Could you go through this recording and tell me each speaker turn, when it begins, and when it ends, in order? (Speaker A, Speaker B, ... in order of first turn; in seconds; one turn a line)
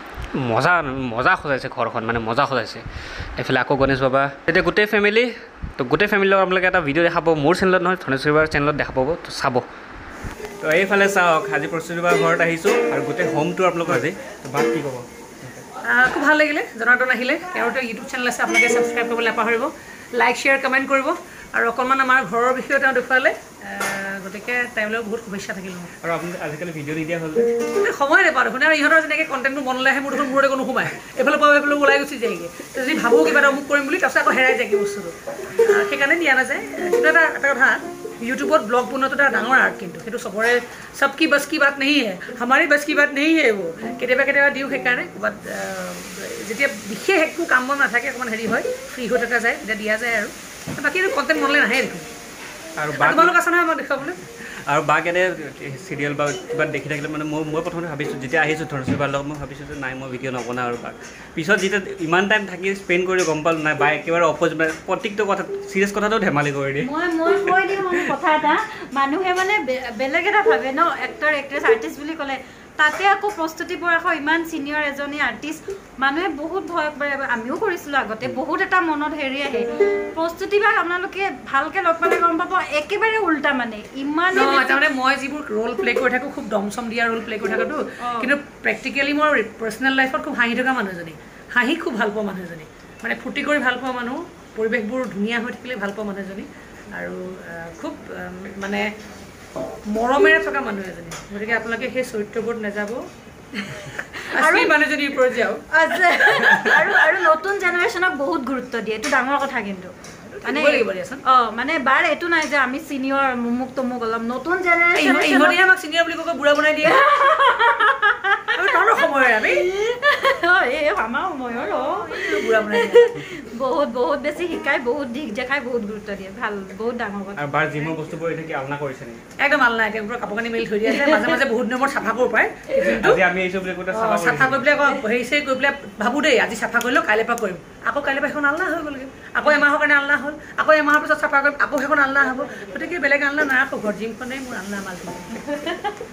Speaker A: 0.3-2.8
Speaker A: 3.4-9.7
Speaker A: 10.6-15.6
Speaker B: 15.8-25.9
Speaker A: 26.0-27.6
Speaker B: 27.8-52.1
Speaker A: 52.8-53.4
Speaker B: 53.0-54.2
Speaker A: 54.6-66.9
Speaker C: 66.8-84.8
Speaker B: 84.3-98.8
Speaker C: 88.0-88.3
Speaker B: 99.9-103.0
Speaker C: 103.7-104.7
Speaker B: 104.3-105.7
Speaker C: 105.7-115.6
Speaker B: 110.3-111.2
Speaker B: 114.9-117.0
Speaker C: 116.8-118.6
Speaker B: 118.5-119.6
Speaker C: 119.3-127.9
Speaker B: 122.0-123.1
Speaker A: 127.3-129.2
Speaker B: 129.4-133.2
Speaker A: 132.9-134.7
Speaker B: 133.9-145.4
Speaker C: 145.5-145.8